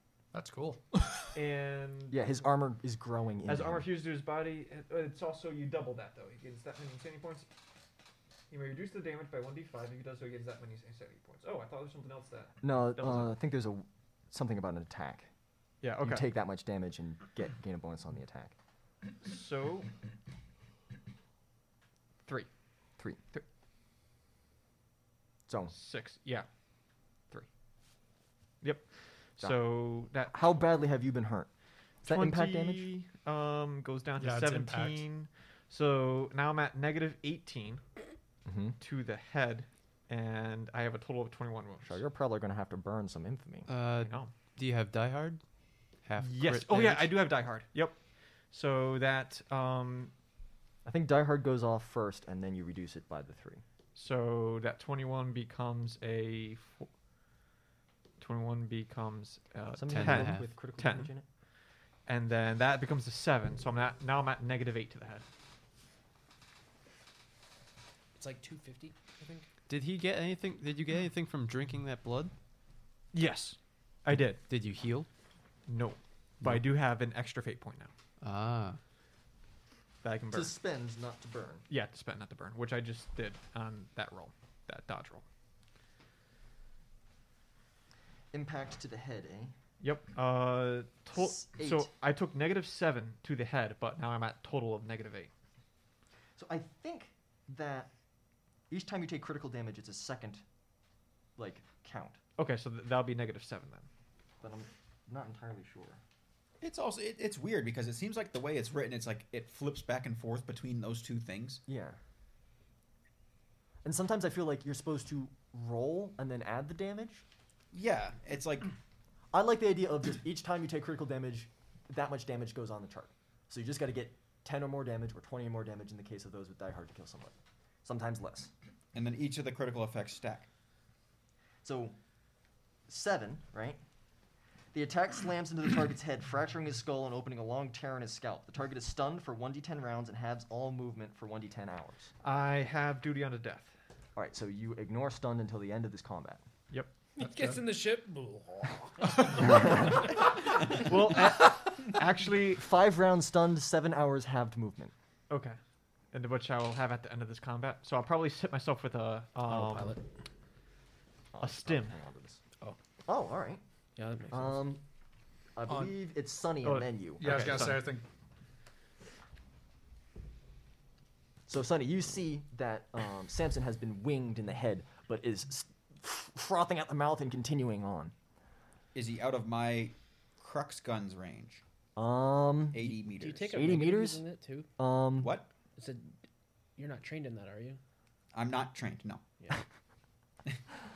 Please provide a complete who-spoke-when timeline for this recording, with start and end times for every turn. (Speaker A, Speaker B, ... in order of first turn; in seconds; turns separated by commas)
Speaker A: 0.3-1.3, Speaker B: 1.3-2.3, Speaker C: 2.1-3.9, Speaker B: 3.5-7.5, Speaker B: 8.5-13.4, Speaker C: 12.6-15.3, Speaker B: 15.8-16.3, Speaker C: 16.0-18.5, Speaker B: 19.2-19.9, Speaker C: 25.5-25.7, Speaker B: 25.7-26.5, Speaker B: 28.6-30.6, Speaker C: 30.3-31.5, Speaker B: 32.0-37.8, Speaker C: 32.0-32.9, Speaker A: 34.2-35.0, Speaker C: 38.5-38.8, Speaker B: 38.8-42.0, Speaker C: 41.9-43.7, Speaker D: 43.7-45.4, Speaker B: 43.9-44.3, Speaker D: 46.1-47.1, Speaker B: 46.2-48.0, Speaker B: 48.5-50.1, Speaker C: 50.9-53.6, Speaker B: 54.0-56.9, Speaker B: 58.2-61.1, Speaker C: 59.7-61.3, Speaker D: 60.0-60.4, Speaker B: 62.1-65.2, Speaker E: 68.2-69.5, Speaker D: 69.7-72.3, Speaker B: 73.1-74.4, Speaker D: 74.5-75.1, Speaker B: 75.7-77.9, Speaker D: 78.2-78.8, Speaker B: 80.0-80.5, Speaker C: 80.3-81.6, Speaker B: 81.7-85.2, Speaker C: 88.3-89.5, Speaker B: 89.8-95.3, Speaker C: 91.1-91.9, Speaker C: 96.4-97.9, Speaker C: 98.7-100.4, Speaker C: 101.4-102.2, Speaker B: 102.4-103.9, Speaker C: 104.4-106.0, Speaker F: 106.6-111.6, Speaker C: 111.7-112.0, Speaker C: 113.8-117.2, Speaker F: 117.7-118.7, Speaker C: 119.3-128.5, Speaker F: 128.9-130.5, Speaker C: 131.6-132.0, Speaker C: 132.9-133.8, Speaker C: 134.7-142.1, Speaker B: 142.2-143.7, Speaker C: 144.2-146.4, Speaker E: 147.2-149.4, Speaker A: 147.2-147.6, Speaker B: 150.7-152.7, Speaker C: 152.6-154.9, Speaker B: 155.3-155.6, Speaker B: 156.1-160.0, Speaker E: 159.5-160.0, Speaker C: 161.3-162.4, Speaker B: 161.4-161.9, Speaker C: 163.1-163.6, Speaker E: 164.0-164.7, Speaker C: 164.3-164.8, Speaker C: 165.6-167.5, Speaker A: 165.7-165.9, Speaker B: 166.6-168.0, Speaker A: 167.2-168.1, Speaker C: 171.5-178.1, Speaker F: 178.9-181.6, Speaker C: 182.0-183.0, Speaker F: 182.7-183.5, Speaker E: 183.0-184.7, Speaker C: 183.5-184.2, Speaker C: 184.8-185.4, Speaker F: 185.2-185.5, Speaker E: 185.8-186.1, Speaker E: 186.8-187.8, Speaker F: 188.3-189.2